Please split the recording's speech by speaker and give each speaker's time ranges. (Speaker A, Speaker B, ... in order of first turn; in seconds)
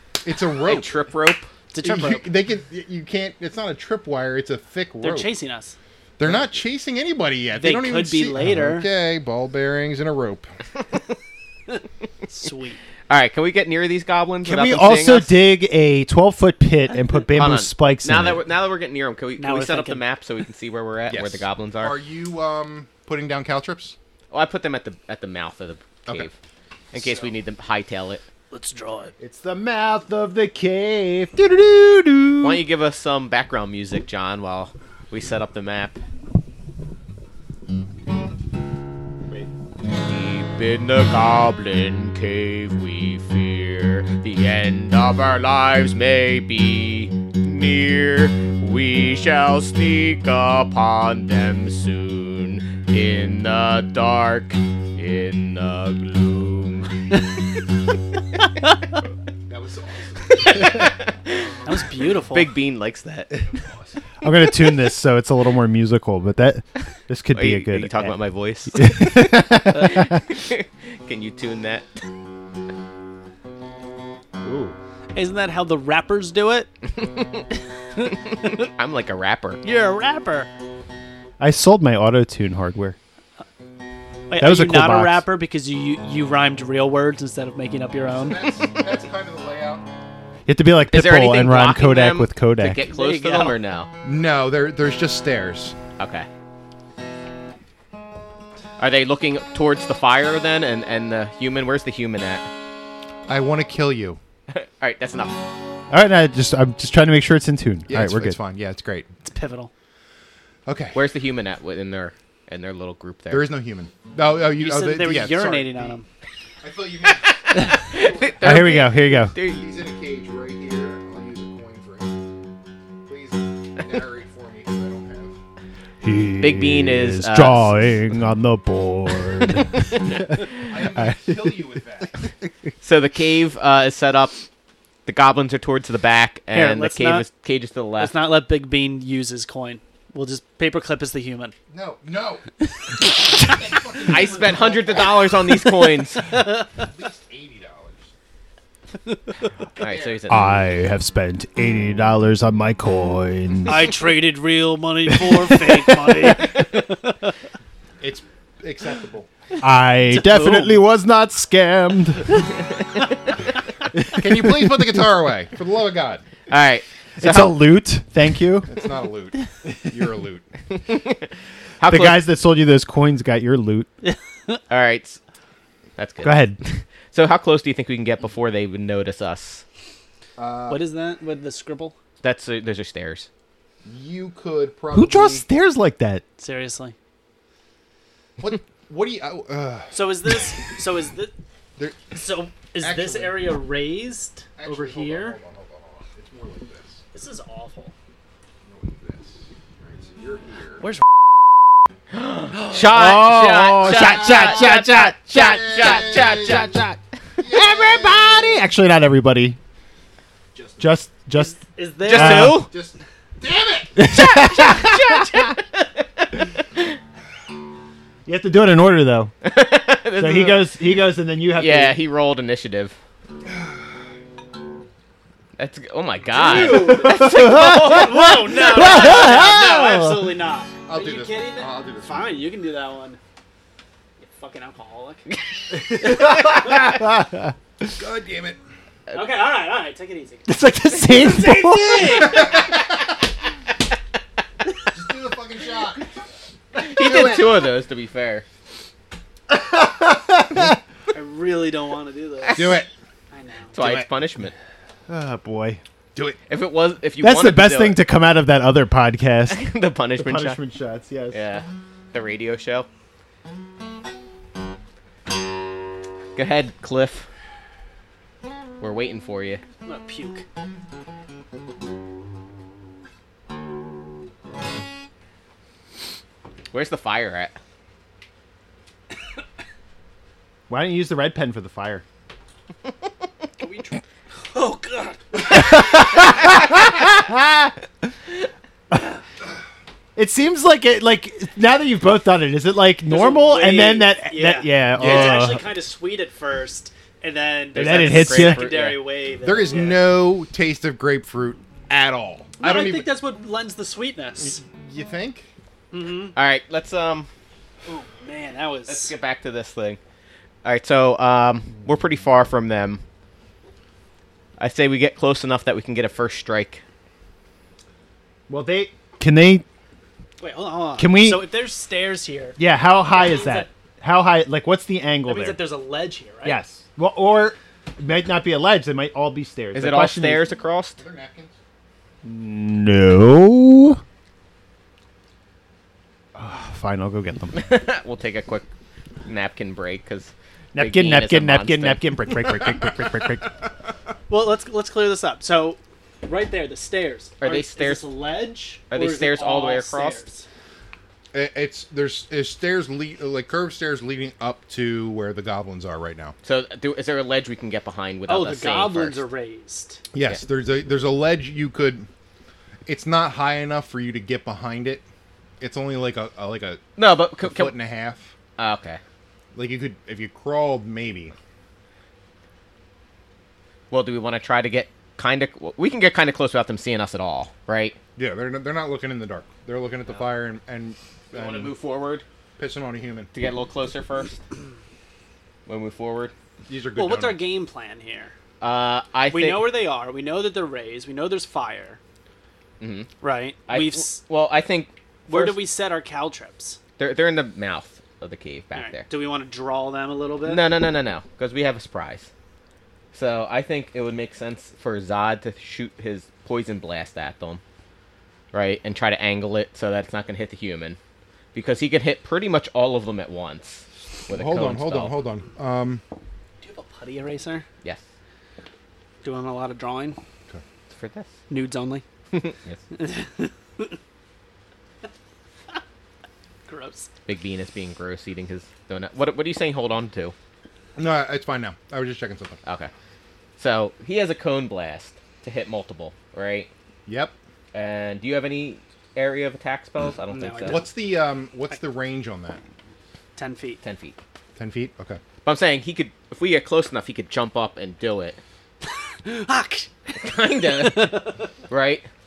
Speaker A: 0.2-1.0, 1.8-5.3, 6.2-10.5, 21.1-24.0, 27.0-27.3, 59.5-60.9, 63.4-63.9, 88.1-89.8, 94.0-95.8, 103.3-104.2, 107.9-109.1, 110.7-111.0, 113.3-116.0, 116.6-118.8, 119.5-122.2, 123.0-125.4, 130.5-132.2, 141.7-142.4, 143.4-145.2, 146.8-148.1, 149.8-150.2, 158.0-159.3, 164.1-166.2, 168.7-170.4, 180.4-180.8, 183.8-185.4, 188.4-190.0, 191.8-192.2, 192.8-193.5, 194.6-197.0, 198.7-200.8, 203.9-204.7, 205.4-206.7, 207.4-208.6, 210.6-210.9, 212.4-214.1, 230.9-232.4, 237.8-238.6, 242.2-242.8, 244.9-246.1, 246.8-247.6, 252.5-252.9, 253.8-254.1, 295.0-295.6, 299.4-303.1, 304.4-305.5, 331.0-331.5, 351.3-356.4, 360.1-362.1, 362.9-365.0, 365.6-366.9, 367.4-368.3, 369.5-371.4, 378.2-381.7, 382.6-383.3, 386.7-387.4, 414.3-416.0, 431.0-432.6, 437.1-437.3, 440.7-442.6, 444.6-445.2
Speaker B: 0.6-1.5, 13.1-15.4, 17.3-21.9, 24.3-26.3, 26.9-28.2, 32.4-36.0, 39.9-57.1, 60.3-61.5, 62.3-63.3, 67.3-71.9, 77.0-77.5, 78.1-79.6, 90.9-93.9, 96.0-96.3, 98.8-102.5, 104.5-105.4, 110.9-113.5, 117.2-119.6, 126.4-128.0, 132.8-134.4, 135.1-138.2, 144.0-146.3, 149.8-150.5, 166.5-167.6, 170.8-172.2, 174.7-175.2, 176.0-179.6, 182.2-183.3, 202.1-206.9, 212.1-212.7, 214.1-216.9, 219.4-220.8, 221.5-223.0, 225.6-228.3, 235.3-236.3, 246.8-248.4, 253.7-254.5, 256.5-258.0, 259.5-260.6, 261.3-262.9, 266.4-267.3, 268.8-269.6, 276.7-277.6, 297.8-299.0, 306.4-307.3, 308.9-310.0, 310.6-313.0, 314.6-316.8, 329.7-331.0, 337.5-338.7, 339.2-342.1, 347.4-348.1, 348.9-350.2, 356.4-359.2, 367.0-367.8, 368.6-369.0, 373.9-378.0, 381.3-382.2, 383.3-384.4, 385.7-386.3, 388.6-389.7, 392.8-393.1, 393.7-395.6, 397.0-399.1, 400.4-402.3, 403.1-407.6, 408.5-411.0, 411.5-415.1, 420.9-421.3, 422.3-422.8, 427.3-430.4, 432.7-432.9, 433.6-436.7, 437.7-440.8, 443.8-444.2, 445.4-448.4, 450.2-452.1
Speaker C: 1.7-2.3, 5.0-5.8, 7.6-8.9, 12.3-12.8, 19.4-20.0, 28.5-29.1, 61.7-62.5, 75.1-76.7, 78.0-78.5, 79.6-80.5, 84.3-88.4, 92.8-93.6, 109.2-109.7, 114.6-116.1, 136.5-137.3, 138.0-141.6, 153.7-157.3, 160.1-160.8, 174.0-174.6, 180.7-182.0, 186.4-186.9, 189.9-191.3, 192.1-195.4, 197.1-197.9, 211.3-212.6, 226.3-233.2, 234.2-235.2, 236.2-237.0, 239.1-242.6, 251.1-253.8, 269.9-270.4, 283.6-285.8, 293.1-300.2, 302.6-304.6, 305.9-306.4, 307.9-309.1, 320.4-322.6, 323.1-323.7, 325.3-326.6, 344.3-350.5, 358.3-360.0, 387.0-388.3, 389.3-392.0, 393.2-394.2, 395.3-396.8, 398.8-400.6, 416.6-417.6, 419.2-420.2, 421.5-422.0, 422.9-424.0, 426.7-427.1, 440.3-440.9, 443.4-443.8, 448.8-451.4
Speaker D: 14.4-18.4, 29.2-32.6, 64.2-68.1, 68.7-70.2, 74.4-74.8, 81.4-83.0, 84.4-85.2, 90.5-92.8, 105.9-108.4, 118.4-119.3, 126.0-131.6, 150.3-153.9, 155.1-156.1, 159.6-162.5, 163.9-165.0, 167.2-168.7, 171.9-173.9, 176.2-176.6, 184.9-186.2, 202.7-209.6, 210.8-211.6, 212.1-212.7, 214.0-215.4, 218.3-219.3, 220.2-222.0, 226.4-230.3, 235.7-237.5, 240.5-242.5, 249.5-250.8, 255.1-255.8, 257.2-259.7, 260.2-261.4, 280.7-282.0, 285.5-288.1, 288.9-289.2, 290.1-295.6, 297.8-298.7, 318.5-319.6, 321.0-321.4, 322.6-325.6, 326.4-330.4, 332.2-334.0, 336.4-337.6, 340.7-343.5